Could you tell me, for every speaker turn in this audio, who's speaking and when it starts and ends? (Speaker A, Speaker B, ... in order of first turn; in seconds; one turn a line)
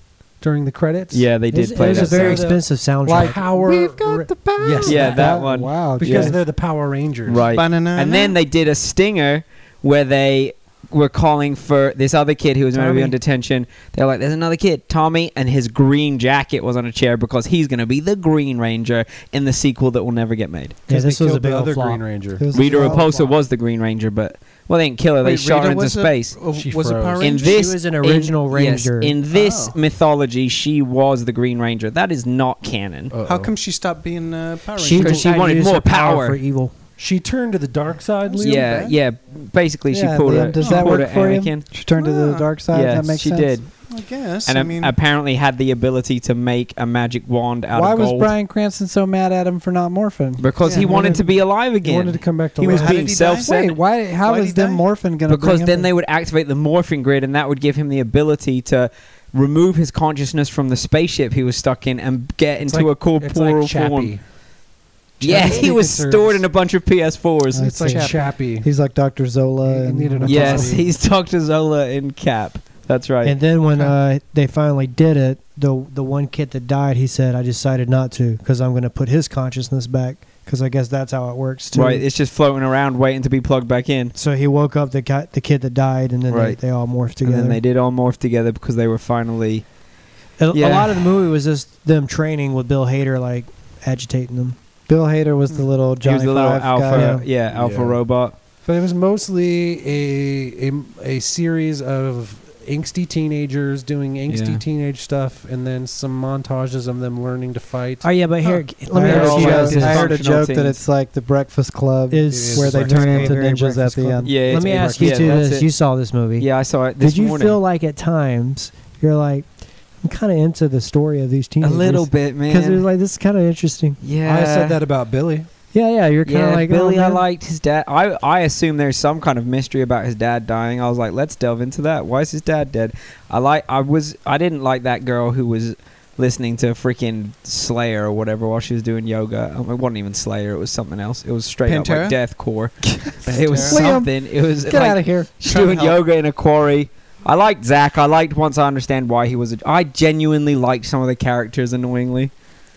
Speaker A: 0.4-5.5
Speaker B: 1.1-2.5
Speaker C: 1.5-3.4
Speaker D: 3.1-6.4
Speaker B: 4.8-6.4
Speaker A: 6.0-7.5
Speaker B: 7.3-20.8
Speaker E: 7.4-8.4
Speaker C: 20.9-22.0
Speaker A: 20.9-22.4
Speaker D: 22.4-23.4
Speaker B: 22.5-26.4
Speaker C: 22.6-22.9
Speaker E: 25.2-27.8
Speaker A: 26.5-27.4
Speaker B: 27.2-33.1
Speaker C: 27.4-29.2
Speaker E: 29.3-29.8
Speaker A: 33.1-33.5
Speaker E: 33.2-35.4
Speaker C: 34.8-36.7
Speaker B: 34.9-36.4
Speaker A: 37.0-38.9
Speaker E: 38.4-39.0
Speaker B: 38.4-41.7
Speaker D: 39.9-43.6
Speaker E: 40.6-41.0
Speaker E: 42.0-42.5
Speaker B: 42.7-48.3
Speaker E: 43.7-45.0
Speaker D: 47.7-50.5
Speaker B: 50.4-53.8
Speaker E: 50.6-51.1
Speaker A: 50.7-53.1
Speaker D: 52.6-55.9
Speaker E: 52.7-54.8
Speaker B: 55.3-64.2
Speaker A: 62.6-64.2
Speaker A: 65.2-66.4
Speaker B: 65.2-68.0
Speaker D: 67.5-70.8
Speaker A: 67.6-68.7
Speaker A: 69.7-70.9
Speaker B: 70.3-73.4
Speaker C: 73.2-82.0
Speaker B: 81.7-84.2
Speaker C: 84.2-87.6
Speaker B: 86.3-89.7
Speaker C: 90.4-94.6
Speaker B: 90.5-91.0
Speaker D: 94.9-97.2
Speaker B: 96.0-98.3
Speaker C: 96.9-97.3
Speaker A: 97.5-98.0
Speaker A: 98.6-108.6
Speaker B: 104.3-104.6
Speaker C: 108.0-110.1
Speaker D: 108.9-114.4
Speaker B: 109.0-110.8
Speaker C: 112.1-124.0
Speaker A: 112.3-113.4
Speaker B: 114.2-115.7
Speaker A: 114.5-115.5
Speaker B: 116.4-117.6
Speaker B: 121.6-122.8
Speaker B: 124.0-124.8
Speaker A: 124.2-125.5
Speaker C: 125.7-127.2
Speaker B: 126.2-152.3
Speaker E: 141.7-142.2
Speaker E: 143.2-144.0
Speaker D: 143.6-145.9
Speaker E: 145.5-145.8